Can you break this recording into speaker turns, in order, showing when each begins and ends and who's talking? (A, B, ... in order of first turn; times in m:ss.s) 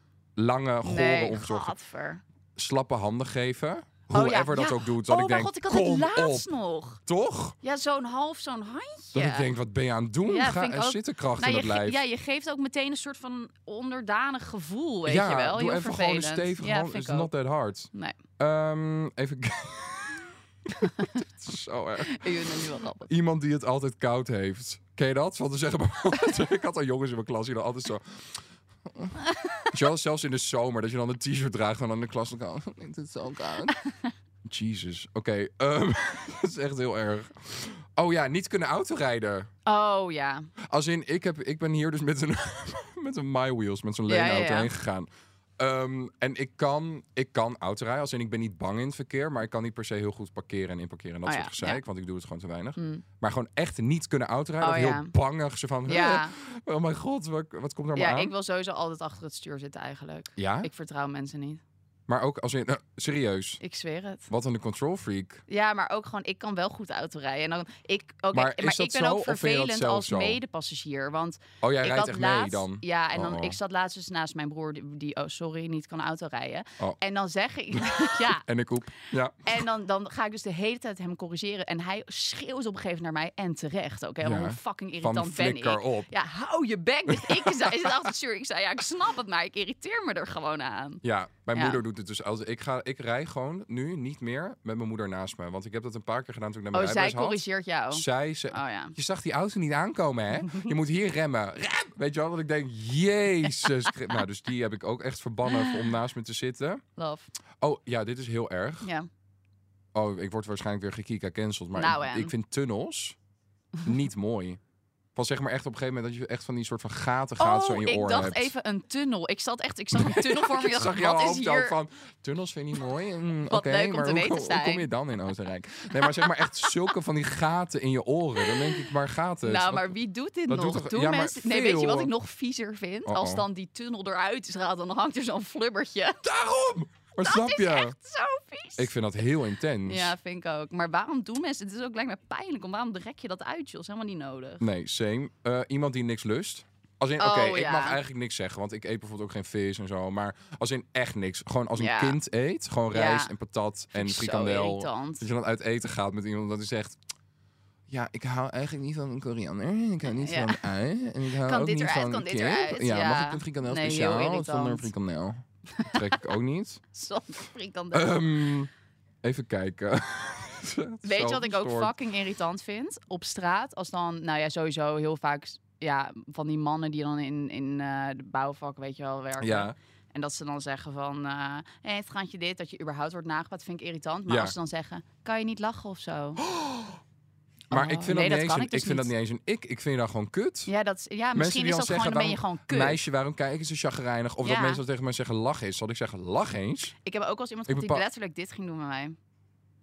0:00.4-0:01.7 A
0:00.8-0:02.2 B
0:02.6-0:06.5 A
0:04.1-0:07.0 B
0:07.0-0:07.6 A
0:07.6-0:09.5 B
0:09.1-0:12.0 A
0:10.3-0:17.3 B
0:15.0-0:29.1 A
0:17.9-0:18.2 B
0:20.9-0:21.2 B
0:22.0-0:23.1 B
0:29.3-0:29.7 B
0:29.7-0:33.7 A
0:33.8-0:34.1 B
0:34.4-0:39.5 A
0:39.6-0:40.5 B
0:40.7-0:45.1 A
0:44.1-0:44.7 B
0:45.6-0:58.3 A
0:51.2-0:51.8 B
0:52.8-0:53.0 B
0:54.6-0:55.1 B
0:55.9-0:56.3 B
0:57.9-1:01.6 B
1:00.4-1:00.7 A
1:02.1-1:03.6 A
1:03.6-1:04.3 B
1:04.3-1:05.4 A
1:05.5-1:18.4 B
1:08.3-1:10.4 A
1:11.6-1:13.6 A
1:17.7-1:19.6 A
1:19.4-1:31.0 B
1:24.2-1:26.1 A
1:27.1-1:28.1 A
1:31.0-1:46.8 A
1:31.5-1:31.8 B
1:36.7-1:39.0 B
1:45.5-1:45.8 B
1:47.0-1:47.3 B
1:47.6-1:48.9 A
1:48.8-1:49.1 B
1:49.9-1:53.2 A
1:51.7-1:52.3 B
1:53.8-1:54.6 A
1:55.1-1:58.5 A
1:57.4-2:01.7 B
1:59.9-2:09.9 A
2:03.5-2:04.9 B
2:06.0-2:06.3 B
2:08.4-2:08.7 B
2:09.4-2:16.2 B
2:10.5-2:12.1 A
2:13.0-2:13.4 A
2:16.2-2:17.9 A
2:17.2-2:18.9 B
2:18.8-2:20.1 A
2:19.8-2:24.7 B
2:24.6-2:37.0 A
2:27.2-2:28.0 B
2:31.8-2:32.2 B
2:32.9-2:33.3 B
2:33.9-2:35.2 B
2:37.9-2:46.8 A
2:40.0-2:40.6 B
2:41.4-2:44.9 B
2:45.8-2:46.2 B
2:46.9-2:48.2 B
2:47.9-2:48.7 A
2:49.2-2:51.9 A
2:51.0-3:06.4 B
2:59.4-2:59.7 A
3:04.3-3:04.5 A
3:06.4-3:07.0 A
3:07.7-3:09.1 B
3:07.7-3:10.7 A
3:10.7-3:13.0 B
3:11.3-3:16.9 A
3:14.4-3:14.8 B
3:17.0-3:19.2 B
3:17.7-3:18.0 A